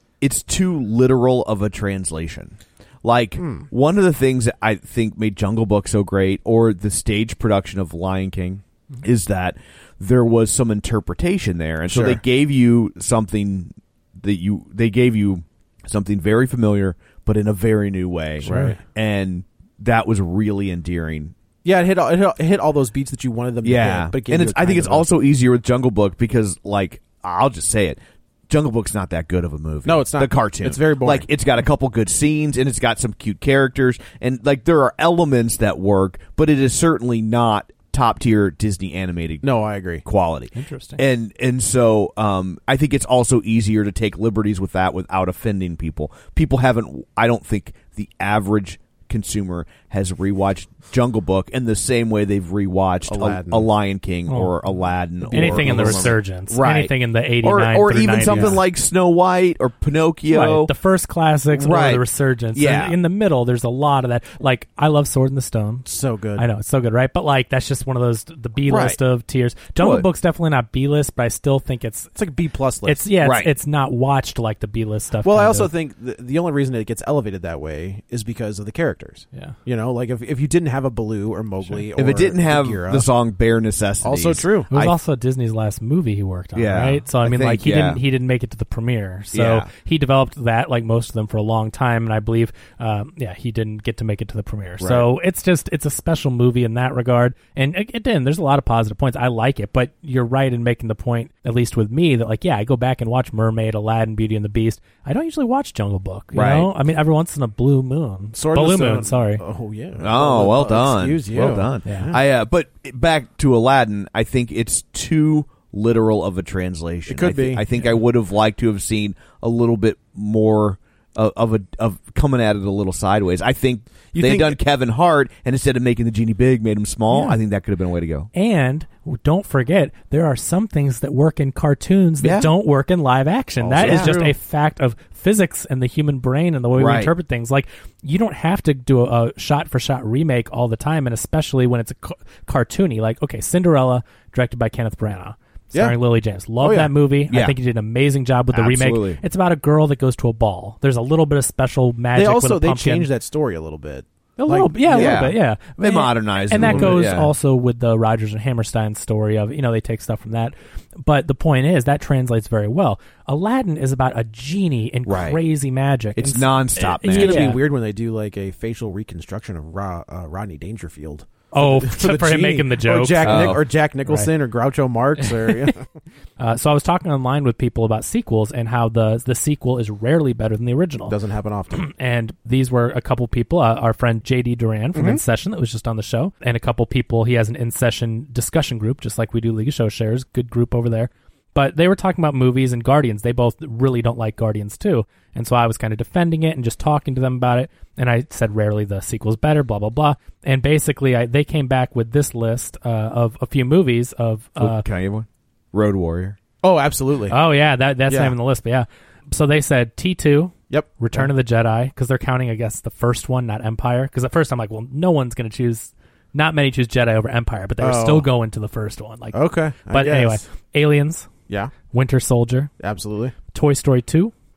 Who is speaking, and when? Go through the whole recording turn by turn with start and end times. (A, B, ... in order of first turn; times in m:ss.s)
0:00.2-0:21.3 A
0:03.4-0:03.6 B
0:11.9-0:12.2 B
0:18.4-0:18.8 C
0:18.4-0:18.8 B
0:21.6-0:25.1 B
0:23.6-0:39.4 A
0:29.8-0:31.3 B
0:39.4-0:40.0 B
0:40.0-1:00.7 A
0:40.5-0:41.0 C
0:53.1-0:53.7 B
0:54.3-0:54.5 C
0:55.3-0:56.2 B
0:55.3-0:58.6 C
0:58.2-0:58.6 B
1:00.3-1:12.1 C
1:01.5-1:03.0 A
1:05.8-1:06.4 B
1:08.6-1:09.0 A
1:09.8-1:10.1 A
1:12.1-1:13.1 B
1:12.8-1:15.7 C
1:13.2-1:13.5 A
1:15.2-1:23.1 B
1:22.0-1:25.0 A
1:24.0-1:24.7 B
1:24.7-1:49.4 C
1:26.5-1:28.0 A
1:29.3-1:29.7 A
1:34.8-1:35.1 A
1:46.3-1:46.7 A
1:48.3-1:52.2 B
1:50.0-2:08.3 A
1:51.8-1:52.1 C
1:57.1-1:57.6 B
2:04.1-2:04.6 B
2:08.3-2:33.1 C
2:12.2-2:12.5 A
2:13.6-2:14.3 B
2:13.8-2:14.2 A
2:16.7-2:17.1 A
2:25.7-2:26.0 B
2:26.6-2:26.9 B
2:27.3-2:27.5 A
2:28.5-2:29.2 A
2:32.1-2:35.3 B
2:34.4-2:47.6 C
2:34.9-2:37.3 A
2:36.6-2:37.0 B
2:45.0-2:45.4 A
2:46.2-2:47.6 A
2:47.1-2:55.9 B
2:51.5-2:54.3 C
2:53.2-2:53.6 A
2:55.2-2:55.7 C
2:56.4-3:01.1 C
3:01.1-3:01.8 B
3:01.7-3:24.8 C
3:04.9-3:05.2 B
3:24.6-3:26.4 A
3:26.6-3:27.4 B
3:27.3-3:41.3 C
3:28.1-3:28.3 B
3:30.7-3:31.3 B
3:37.8-3:38.3 B
3:39.3-3:40.4 B
3:41.9-3:42.7 C
3:42.8-3:43.3 B
3:43.5-3:44.3 C